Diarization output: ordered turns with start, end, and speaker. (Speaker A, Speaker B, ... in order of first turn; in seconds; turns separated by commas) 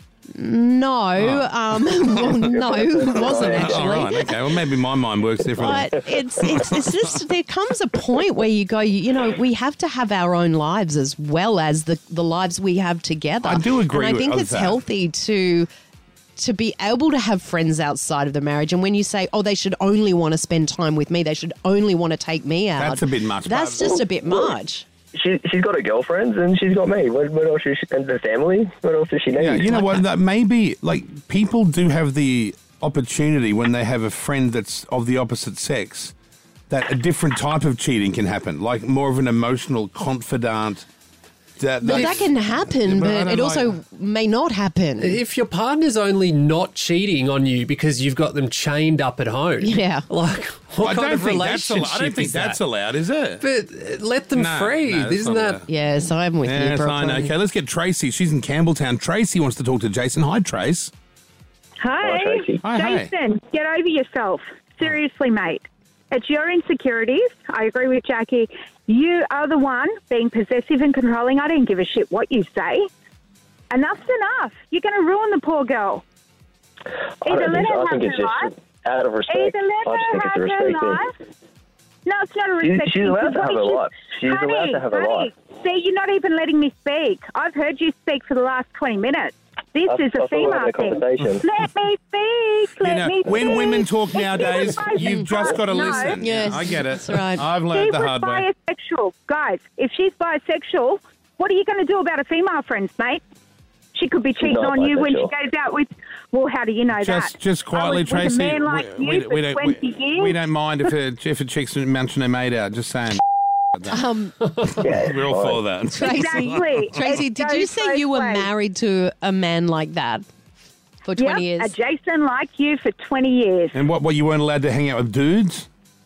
Speaker A: 0.3-4.3, Speaker B: 1.2-1.5, Speaker B: 2.1-2.3, Speaker C: 2.3-4.0, Speaker B: 3.4-6.9, Speaker A: 5.6-15.7, Speaker B: 13.4-14.8, Speaker A: 16.4-24.9, Speaker B: 22.8-24.0, Speaker C: 23.9-24.5, Speaker C: 25.1-29.9, Speaker B: 29.4-36.1, Speaker B: 36.7-40.9, Speaker B: 41.6-43.7, Speaker A: 41.8-45.2, Speaker D: 45.0-52.6, Speaker A: 49.6-50.1, Speaker B: 50.8-53.4, Speaker D: 53.4-55.6, Speaker B: 54.3-55.6, Speaker A: 55.7-57.3, Speaker B: 56.4-60.9, Speaker E: 61.8-72.9, Speaker C: 62.0-62.6, Speaker B: 62.6-63.1, Speaker E: 73.7-76.0, Speaker E: 77.2-78.5, Speaker C: 77.2-81.0, Speaker E: 79.3-81.1, Speaker E: 82.1-96.2, Speaker C: 82.6-85.3, Speaker C: 89.8-91.5, Speaker B: 92.8-98.5, Speaker C: 93.4-93.6, Speaker A: 96.2-97.5, Speaker E: 97.7-103.2, Speaker E: 103.9-110.3, Speaker C: 104.4-105.3, Speaker B: 106.9-113.2, Speaker A: 113.9-114.3, Speaker C: 114.8-115.6, Speaker B: 115.0-117.0, Speaker E: 116.0-118.5, Speaker A: 116.0-116.4, Speaker A: 116.9-120.2, Speaker A: 121.0-121.8, Speaker E: 121.2-123.8, Speaker B: 123.7-125.7